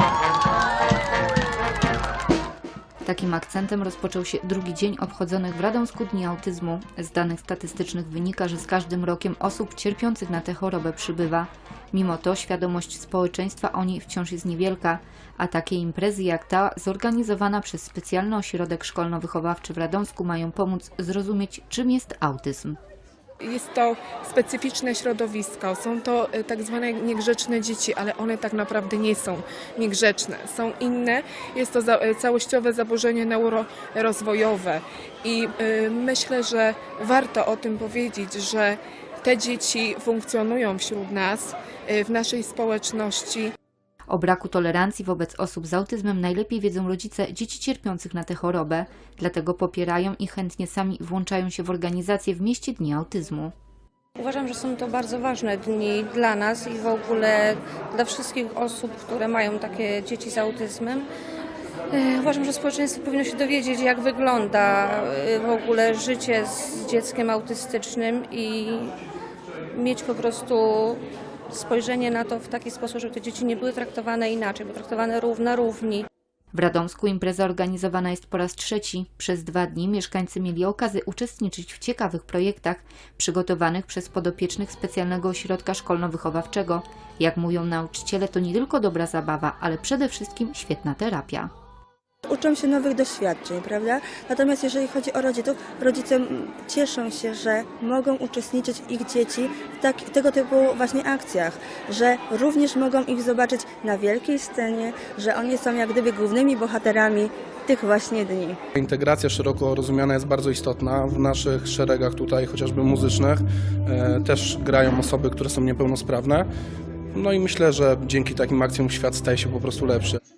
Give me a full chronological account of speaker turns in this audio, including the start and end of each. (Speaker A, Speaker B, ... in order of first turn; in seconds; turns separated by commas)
Speaker A: 3.0-22.8, Speaker B: 23.4-43.5, Speaker A: 44.1-53.5, Speaker C: 54.2-61.1, Speaker C: 61.9-69.0, Speaker C: 69.7-76.1, Speaker A: 76.5-91.5, Speaker D: 92.3-108.6, Speaker E: 108.7-116.5, Speaker E: 117.1-120.2